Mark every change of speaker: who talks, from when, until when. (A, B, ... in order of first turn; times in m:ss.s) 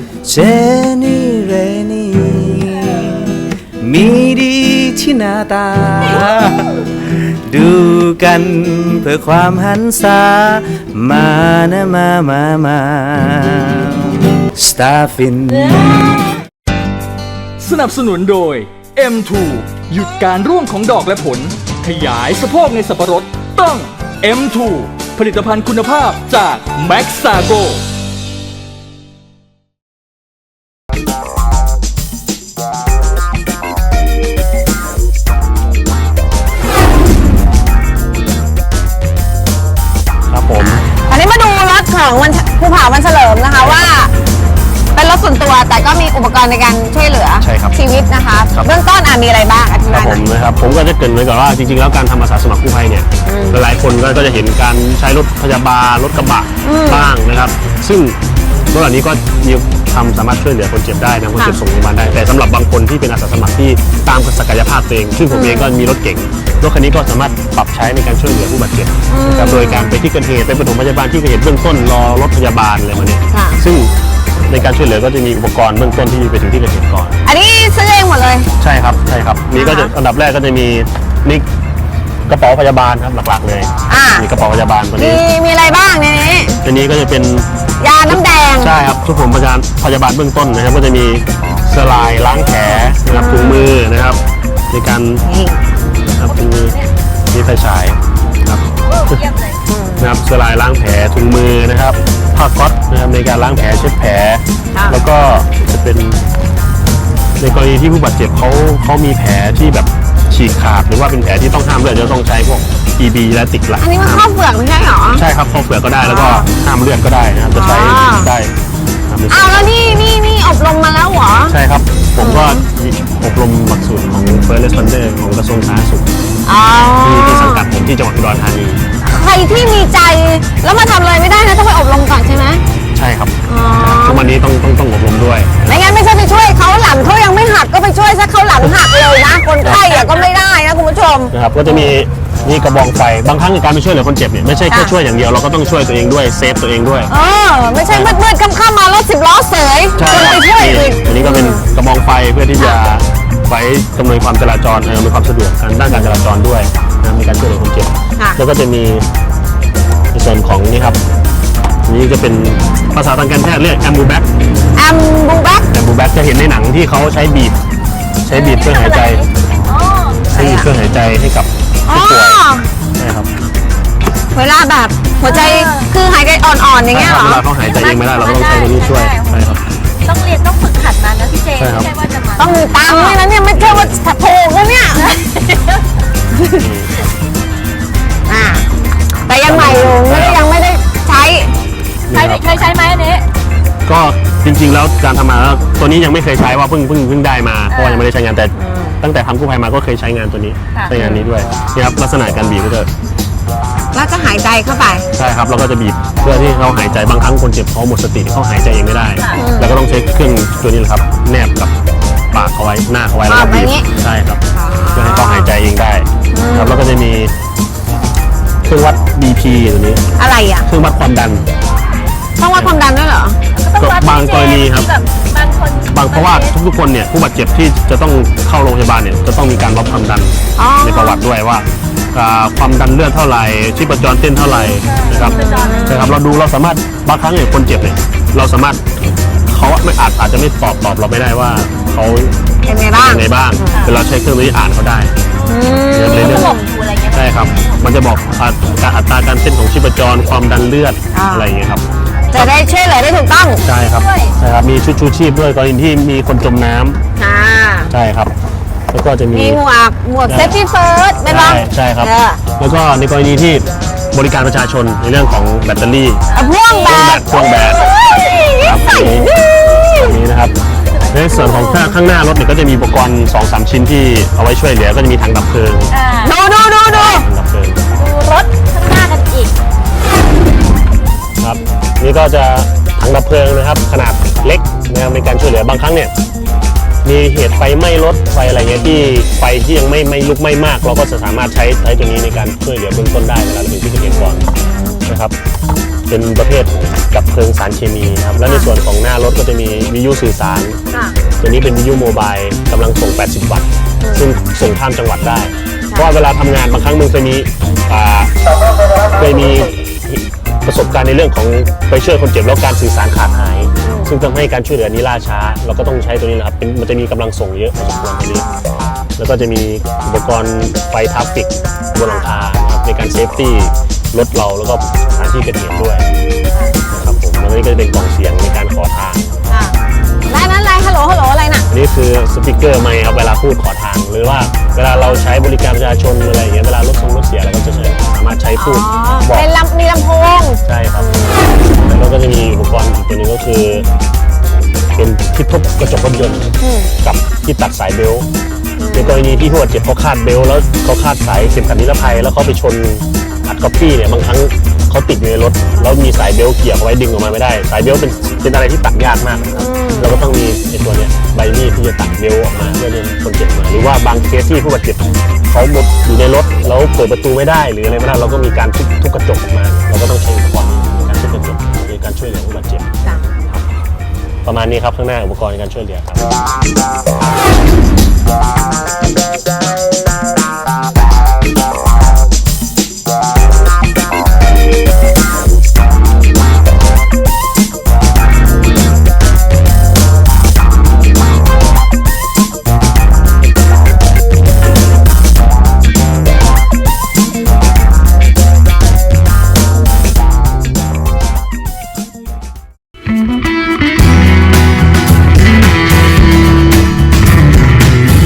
0:00.2-0:16.2 A
0:17.6-0:27.8 B
0:40.3-0:40.8 C
0:40.6-0:44.1 D
0:43.6-0:44.0 C
0:45.0-0:50.2 D
0:47.4-0:47.8 C
0:49.9-0:58.2 C
0:53.2-0:53.6 D
0:56.6-0:57.1 D
0:58.7-1:13.9 C
1:01.4-1:01.6 D
1:05.3-1:05.8 D
1:09.1-1:10.0 D
1:13.3-1:13.6 D
1:14.5-1:17.2 C
1:17.2-1:18.5 D
1:18.6-1:21.4 C
1:19.5-1:19.9 D
1:22.3-1:25.2 C
1:23.9-1:24.3 D
1:25.0-1:26.6 D
1:26.6-1:27.5 C
1:27.8-1:28.7 D
1:28.1-1:34.2 C
1:32.8-1:33.7 D
1:34.7-1:35.2 C
1:35.2-1:35.6 D
1:36.2-1:36.8 C
1:36.2-1:36.9 E
1:37.3-1:39.2 C
1:38.9-1:39.6 E
1:39.7-1:40.1 D
1:40.0-1:46.3 C
1:44.7-1:45.1 D
1:47.4-1:54.3 C
1:53.8-1:55.2 D
1:55.1-1:58.6 C
1:56.0-1:56.5 D
1:57.5-1:58.3 D
1:59.1-1:59.7 C
1:59.3-2:01.6 D
2:01.5-2:06.1 C
2:02.2-2:02.6 D
2:06.4-2:07.7 D
2:07.0-2:08.8 C
2:09.0-2:12.6 D
2:12.9-2:16.0 C
2:13.5-2:14.3 D
2:15.7-2:21.9 D
2:19.6-2:20.0 C
2:21.3-2:27.1 C
2:24.7-2:24.9 D
2:27.1-2:31.6 D
2:27.9-2:28.2 C
2:30.0-2:39.1 C
2:35.9-2:36.2 D
2:40.1-2:41.0 C
2:41.9-2:44.3 C
2:44.8-2:45.7 D
2:45.7-2:47.6 C
2:48.2-2:49.2 C
2:48.3-2:50.6 E
2:50.3-2:52.4 C
2:50.4-2:50.7 D
2:51.9-2:52.7 D
2:53.0-2:53.3 C
2:54.3-2:57.4 D
2:55.2-2:55.9 E
2:56.9-2:59.6 C
2:57.6-3:03.2 E
3:01.6-3:01.9 C
3:02.4-3:05.2 D
3:03.5-3:04.0 C
3:04.9-3:05.8 E
3:06.3-3:06.7 D
3:06.5-3:06.9 C
3:08.2-3:08.7 D
3:09.2-3:11.5 D
3:09.4-3:10.4 C
3:12.1-3:12.5 C
3:12.1-3:13.2 E
3:13.8-3:22.9 C
3:17.7-3:18.1 E
3:18.5-3:19.0 D
3:20.9-3:21.3 D
3:23.9-3:25.1 D
3:25.1-3:31.7 C
3:29.3-3:29.8 D
3:32.3-3:34.4 C
3:33.3-3:33.9 D
3:34.5-3:35.5 D
3:34.9-3:37.3 C
3:36.3-3:36.9 D
3:38.6-3:40.0 C
3:40.2-3:40.7 D
3:40.7-3:41.5 C
3:42.4-3:43.4 D
3:42.5-3:42.8 C
3:43.5-3:46.6 E
3:43.8-3:44.9 C
3:45.9-3:58.8 C
3:50.6-3:51.3 D
3:54.5-3:56.1 E
3:55.1-3:56.2 D
3:59.5-4:02.3 C
4:01.7-4:02.0 E
4:02.6-4:03.8 D
4:02.9-4:05.2 C
4:03.7-4:04.0 E
4:05.3-4:08.0 E
4:05.5-4:06.7 D
4:05.9-4:06.5 C
4:07.1-4:11.8 C
4:11.1-4:11.5 D
4:12.0-4:13.0 E
4:12.3-4:13.6 D
4:13.5-4:14.4 E
4:13.6-4:17.0 C
4:17.2-4:17.9 D
4:17.9-4:18.3 C
4:18.9-4:19.6 C
4:19.3-4:22.4 D
4:20.3-4:20.6 C
4:21.3-4:26.2 C
4:26.3-4:28.6 E
4:26.4-4:30.2 D
4:26.9-4:27.9 C
4:28.6-4:29.3 C
4:29.9-4:30.6 C
4:31.1-4:35.9 C
4:31.3-4:32.0 D
4:35.9-4:36.4 E
4:36.2-4:37.3 D
4:36.9-4:37.8 C
4:37.9-4:39.5 E
4:41.4-4:46.1 C
4:47.0-4:54.5 C
4:54.5-4:55.1 D
4:55.1-4:55.4 C
4:56.1-5:00.8 C
4:58.4-4:58.7 D
5:01.4-5:08.3 C
5:04.0-5:04.3 D
5:09.1-5:18.4 C
5:13.8-5:14.1 D
5:19.2-5:26.1 C
5:22.0-5:22.3 D
5:26.9-5:29.3 C
5:29.5-5:29.8 D
5:30.3-5:31.7 D
5:31.7-5:39.5 C
5:38.6-5:41.6 D
5:40.6-5:41.1 C
5:41.8-5:43.9 C
5:44.8-5:48.3 C
5:46.6-5:46.9 D
5:48.8-5:49.2 D
5:48.9-6:12.9 C
5:59.6-6:00.2 D
6:13.0-6:13.3 D
6:14.4-6:16.2 C